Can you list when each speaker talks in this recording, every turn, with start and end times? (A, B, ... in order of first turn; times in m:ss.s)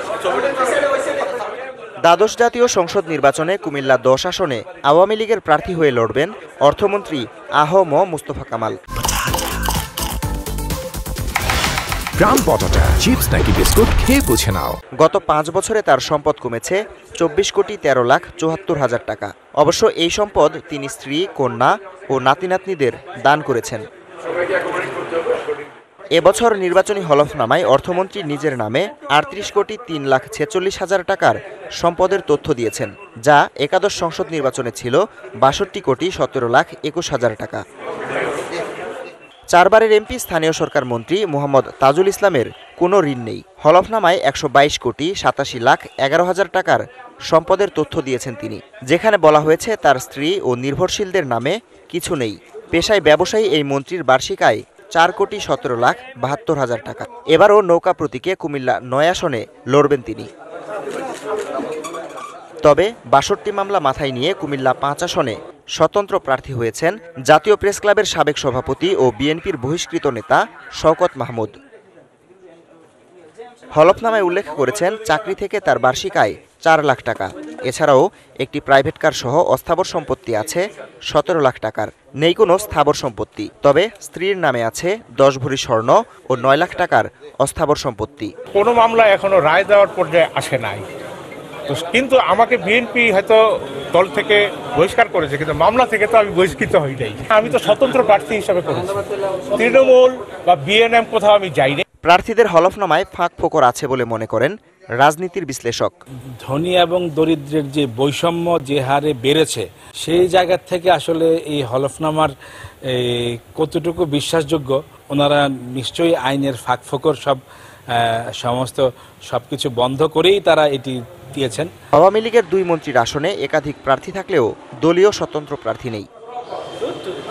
0:02.1-0:08.8 A
0:12.3-0:14.7 B
0:15.0-0:23.8 A
0:26.2-0:37.6 A
0:39.5-1:00.3 A
1:02.6-1:11.6 A
1:13.8-1:28.3 A
1:28.5-1:30.9 C
1:31.7-1:41.8 C
1:42.1-1:45.9 A
1:46.4-1:52.3 D
1:52.9-1:57.4 D
1:57.9-2:01.7 D
2:01.9-2:06.1 A